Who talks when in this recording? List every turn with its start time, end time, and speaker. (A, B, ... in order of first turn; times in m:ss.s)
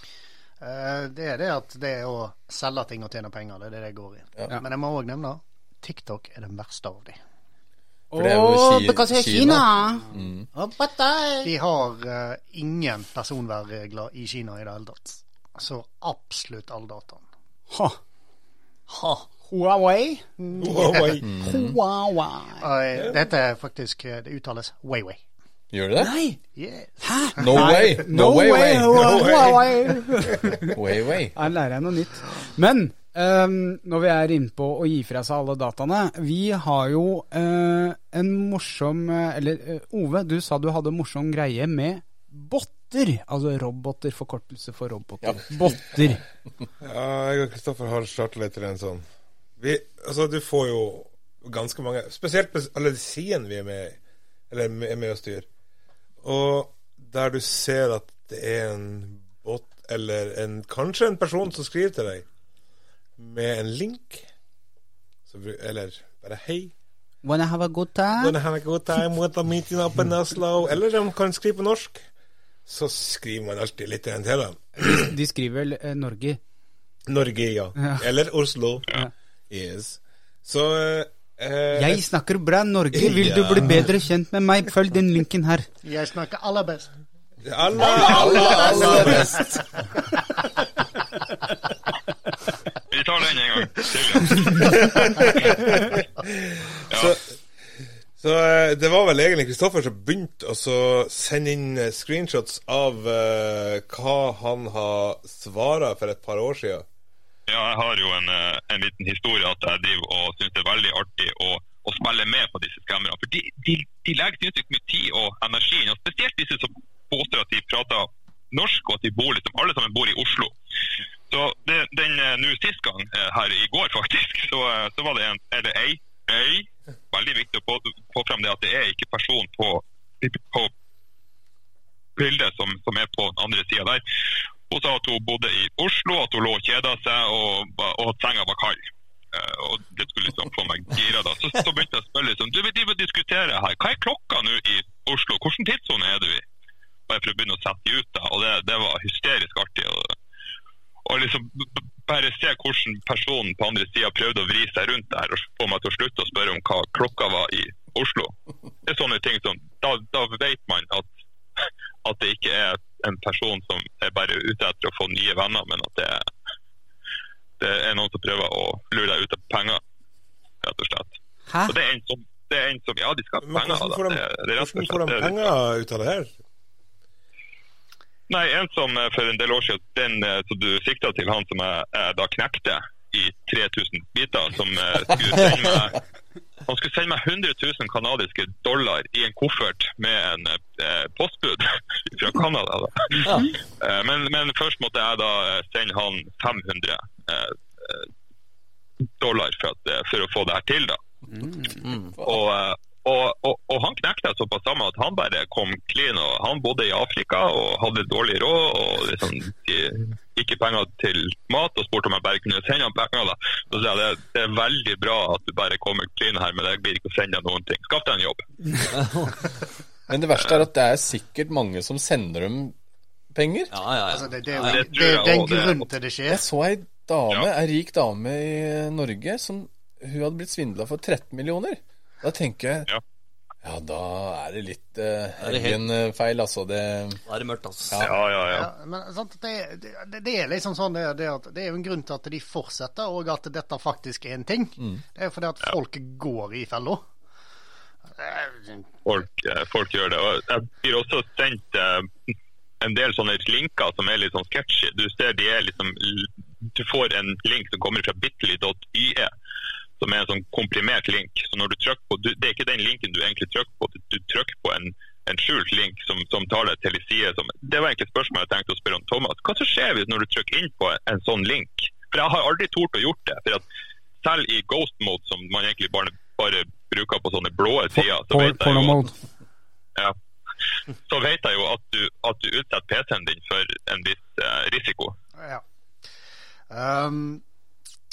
0:00.6-0:07.2 A
0:08.1-0:11.5 B
0:08.1-0:10.5 C
0:11.4-0:17.2 A
0:17.7-0:18.0 B
0:19.3-0:20.2 B
0:20.4-0:21.2 A
0:20.6-0:21.3 D
0:21.2-0:21.8 C
0:21.4-0:22.6 B
0:22.6-0:25.2 A
0:25.7-0:26.1 C
0:26.0-0:26.4 B
0:26.6-0:27.8 A
0:27.0-0:30.8 B
0:27.4-0:29.2 C
0:28.9-0:30.3 D
0:30.7-0:31.4 C
0:31.4-0:46.2 B
0:45.2-0:46.0 C
0:46.8-0:49.0 D
0:49.6-0:54.0 D
0:54.5-0:55.5 D
0:56.2-1:02.3 D
1:03.2-1:04.2 D
1:05.3-1:06.7 D
1:07.2-1:08.4 B
1:08.2-1:12.0 D
1:12.7-1:15.1 D
1:14.8-1:16.4 B
1:17.1-1:18.9 D
1:17.8-1:18.0 B
1:19.5-1:22.0 D
1:21.7-1:25.7 B
1:22.9-1:23.9 D
1:25.8-1:26.9 A
1:27.4-1:29.4 D
1:27.8-1:29.8 A
1:27.9-1:29.6 C
1:32.9-1:34.9 E
1:34.5-1:37.3 D
1:36.9-1:37.2 E
1:38.2-1:46.8 D
1:47.5-2:00.5 E
2:01.3-2:10.7 E
2:12.2-2:14.1 E
2:14.7-2:26.4 E
2:27.1-2:30.1 E
2:31.1-2:38.3 E
2:38.9-2:46.3 E
2:47.6-2:49.8 E
2:50.6-2:55.5 E
2:53.4-2:56.3 D
2:58.3-3:06.0 E
3:06.7-3:18.1 E
3:13.2-3:13.5 F
3:19.2-3:21.0 E
3:21.4-3:21.8 B
3:21.7-3:22.2 F
3:22.2-3:38.9 E
3:38.9-3:39.4 F
3:40.1-3:42.8 C
3:43.3-3:43.7 C
3:43.7-3:44.9 F
3:44.1-3:46.4 A
3:44.6-3:45.9 E
3:46.3-3:52.9 C
3:53.6-3:57.2 C
3:55.4-3:55.8 F
3:57.3-3:58.1 F
3:57.9-3:58.2 C
3:58.0-3:58.7 E
3:58.5-4:07.0 A
4:08.2-4:08.9 A
4:09.0-4:12.1 E
4:12.8-4:19.3 E
4:20.0-4:33.6 E
4:34.2-4:39.0 E
4:38.0-4:39.1 B
4:41.1-4:45.2 E
4:46.7-4:47.4 A